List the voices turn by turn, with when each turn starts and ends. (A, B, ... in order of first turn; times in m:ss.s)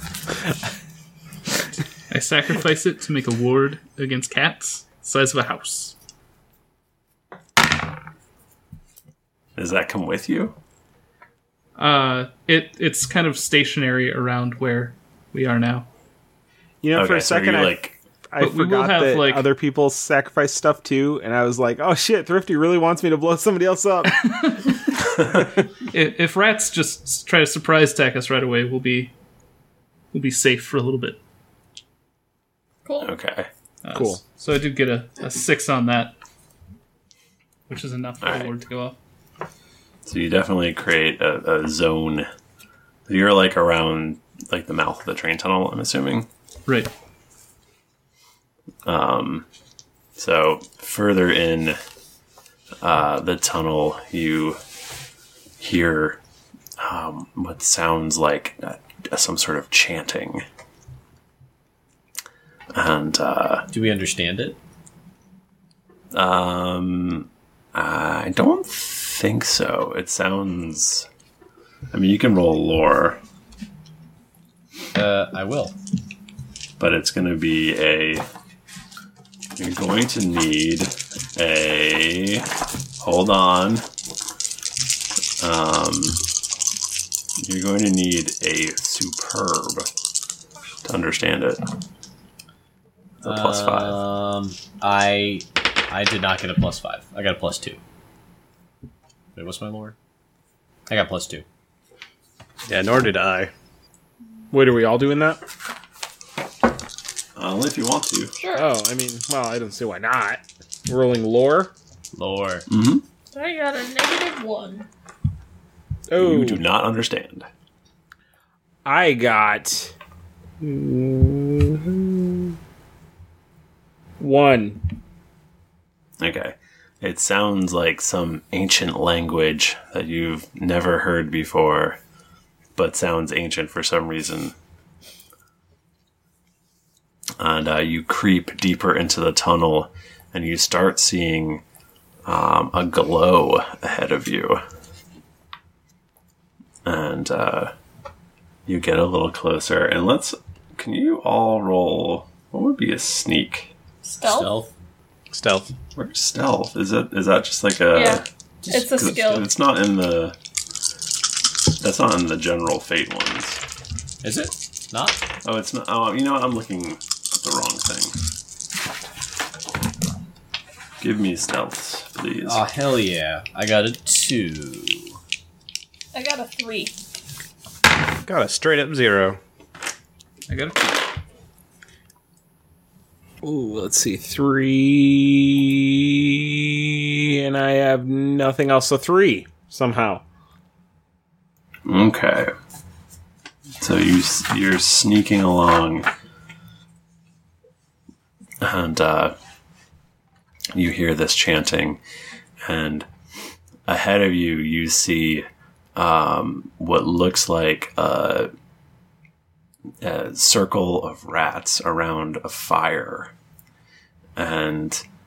0:02.1-0:06.0 A
0:09.6-0:10.6 B
0:11.8-0:15.9 A
0:16.8-0:17.8 C
0:16.9-0:18.0 B
0:18.3-0:25.3 C
0:18.4-0:19.5 A
0:25.9-0:29.1 A
0:30.1-0:31.2 A
0:32.8-0:33.1 D
0:33.0-0:33.5 B
0:33.8-0:36.2 A
0:33.9-0:34.2 C
0:37.7-0:39.0 A
0:38.2-0:38.5 B
0:40.1-0:42.3 B
0:43.1-0:46.3 B
0:48.8-0:49.5 B
0:50.2-0:51.8 B
0:52.8-0:54.6 B
0:55.6-0:56.2 B
0:56.8-1:00.4 B
1:02.7-1:03.6 B
1:03.7-1:04.6 E
1:06.1-1:11.1 B
1:11.9-1:13.2 B
1:14.9-1:15.8 E
1:16.8-1:18.2 B
1:19.6-1:22.5 B
1:23.0-1:23.8 B
1:25.4-1:26.2 B
1:27.4-1:29.9 B
1:30.8-1:31.6 B
1:33.2-1:34.0 B
1:33.2-1:37.8 E
1:39.4-1:40.0 E
1:40.9-1:41.4 E
1:42.7-1:43.5 F
1:44.5-1:45.4 C
1:47.4-1:48.3 B
1:48.4-1:48.7 D
1:48.6-1:51.7 C
1:52.1-1:52.6 E
1:52.7-1:53.0 B
1:53.3-1:54.9 D
1:56.1-1:56.6 C
1:56.2-1:57.5 B
1:58.9-1:59.9 C
2:00.6-2:02.6 C
2:04.2-2:04.8 C
2:06.2-2:12.0 B
2:12.8-2:14.5 B
2:17.4-2:21.6 B
2:22.3-2:24.6 B
2:26.8-2:27.7 B
2:28.7-2:33.7 B
2:34.0-2:34.5 D
2:34.2-2:34.7 E
2:35.3-2:35.7 F
2:36.0-2:40.4 B
2:37.9-2:39.5 D
2:38.6-2:39.4 E
2:41.8-2:43.6 B
2:44.2-2:45.2 E
2:45.4-2:48.1 B
2:51.0-2:52.6 B
2:52.4-2:55.2 E
2:56.1-2:57.0 D
2:58.2-2:59.4 F
3:00.5-3:01.0 A
3:03.4-3:10.2 C
3:11.9-3:12.5 B
3:13.8-3:16.1 B
3:18.6-3:19.3 B
3:20.8-3:22.0 B
3:22.7-3:23.1 B
3:23.9-3:28.5 B
3:30.0-3:33.3 B
3:34.4-3:35.0 B